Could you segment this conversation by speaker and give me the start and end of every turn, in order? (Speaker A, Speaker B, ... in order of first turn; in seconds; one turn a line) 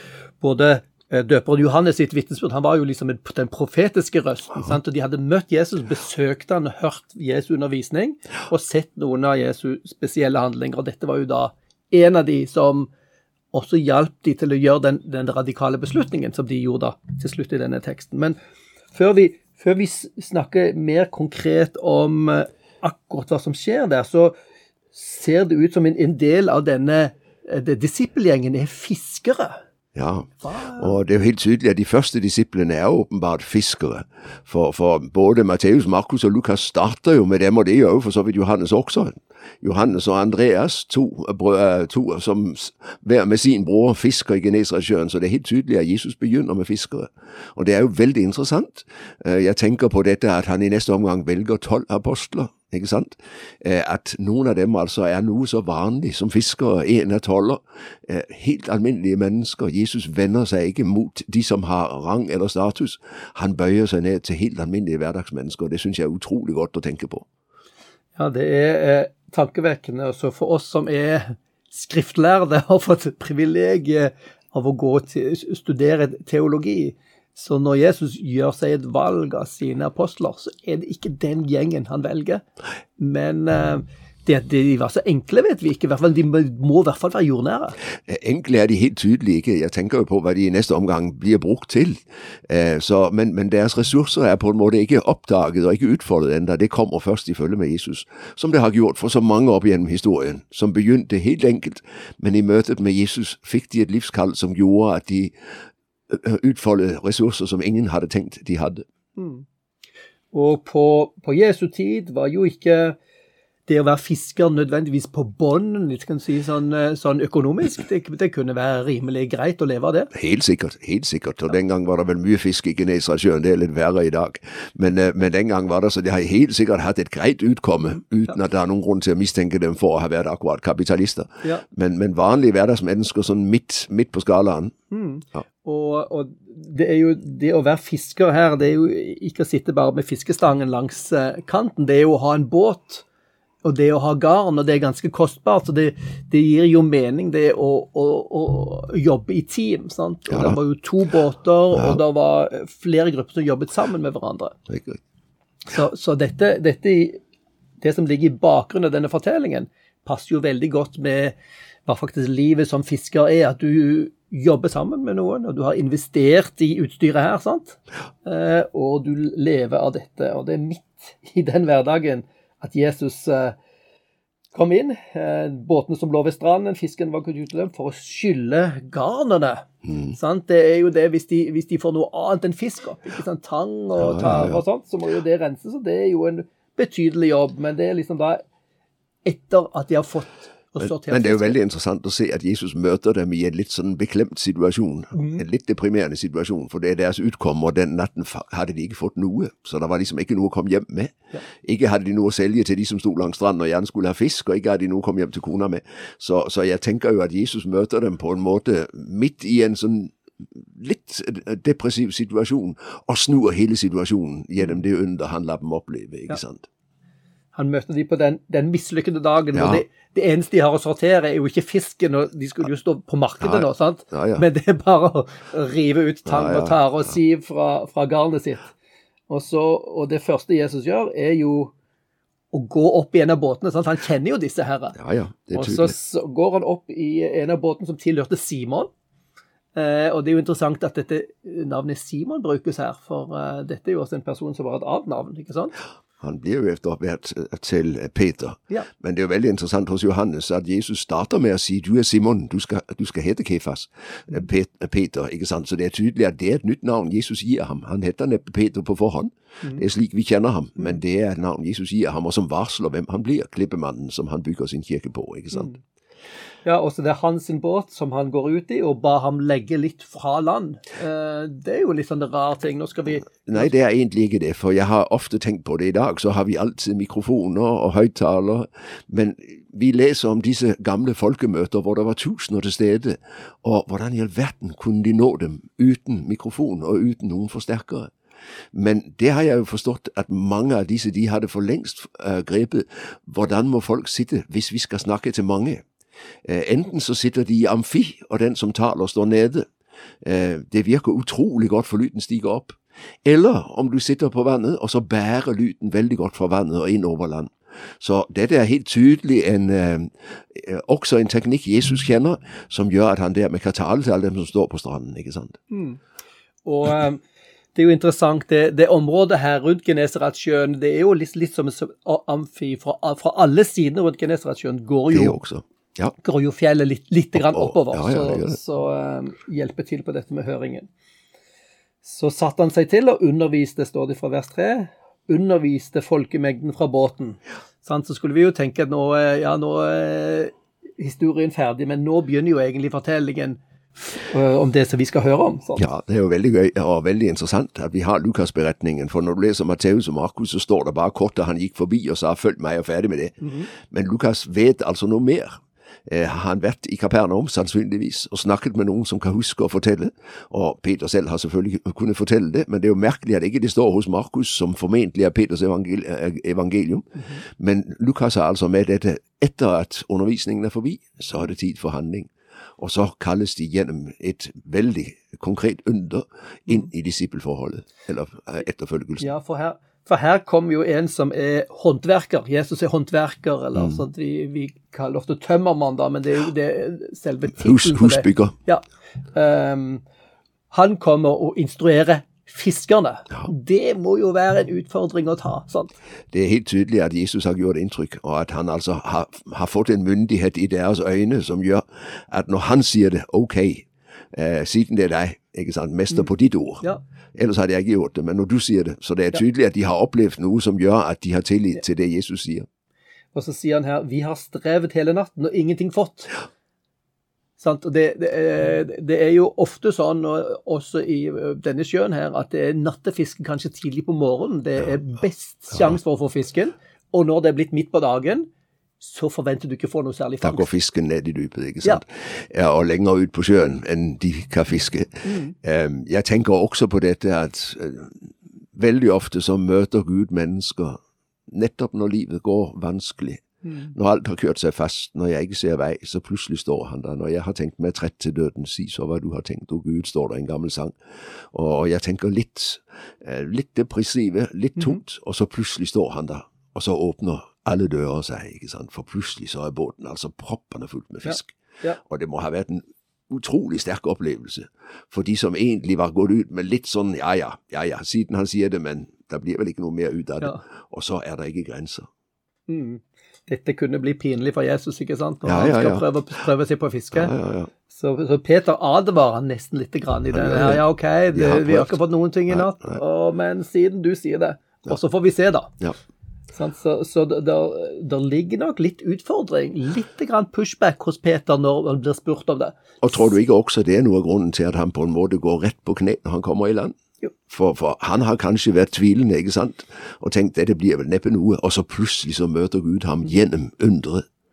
Speaker A: 0.4-12.9
Speaker A: 13.5-18.4
Speaker A: 18.9-24.4
Speaker A: 24.9-29.6
Speaker B: 29.9-67.3
Speaker A: 30.4-31.0
Speaker A: 68.2-82.4
Speaker A: 83.0-87.8
Speaker B: 88.1-105.3
Speaker B: 106.1-108.8
Speaker A: 109.2-109.5
Speaker A: 110.3-113.0
Speaker A: 113.7-120.1
Speaker B: 120.1-134.7
Speaker A: 134.9-143.1
Speaker A: 143.6-154.6
Speaker B: 150.3-150.6
Speaker B: 151.7-152.0
Speaker B: 154.7-155.0
Speaker A: 155.7-157.2
Speaker A: 157.8-173.6
Speaker A: 174.5-188.4
Speaker B: 184.0-184.6
Speaker A: 189.2-191.6
Speaker B: 190.8-216.7
Speaker A: 195.2-195.4
Speaker A: 217.5-228.7
Speaker B: 219.5-219.8
Speaker B: 223.4-224.4
Speaker B: 226.3-227.1
Speaker A: 229.3-231.7
Speaker A: 232.5-235.0
Speaker B: 235.0-235.9
Speaker A: 235.5-238.9
Speaker A: 239.8-245.8
Speaker B: 246.2-265.7
Speaker A: 265.5-265.8
Speaker A: 266.6-273.7
Speaker B: 273.3-288.1
Speaker B: 288.7-295.9
Speaker B: 296.4-299.7
Speaker B: 300.2-315.6
Speaker A: 315.7-316.0
Speaker A: 316.6-317.2
Speaker A: 317.8-325.4
Speaker B: 325.1-326.1
Speaker A: 326.2-330.9
Speaker B: 327.4-328.6
Speaker A: 332.0-345.9
Speaker B: 345.8-379.3
Speaker A: 353.4-353.7
Speaker A: 367.2-367.4
Speaker A: 379.2-390.0
Speaker B: 387.6-388.6
Speaker A: 390.7-395.9
Speaker B: 396.3-412.7
Speaker A: 413.3-416.4
Speaker A: 417.6-430.7
Speaker B: 430.4-450.9
Speaker A: 435.2-435.6
Speaker A: 443.6-443.9
Speaker B: 451.5-472.1
Speaker A: 461.2-462.0
Speaker A: 472.7-477.3
Speaker B: 475.4-476.1
Speaker B: 477.1-477.7
Speaker A: 477.9-485.8
Speaker B: 480.3-483.0
Speaker A: 486.5-492.8
Speaker B: 493.0-497.0
Speaker B: 497.5-504.3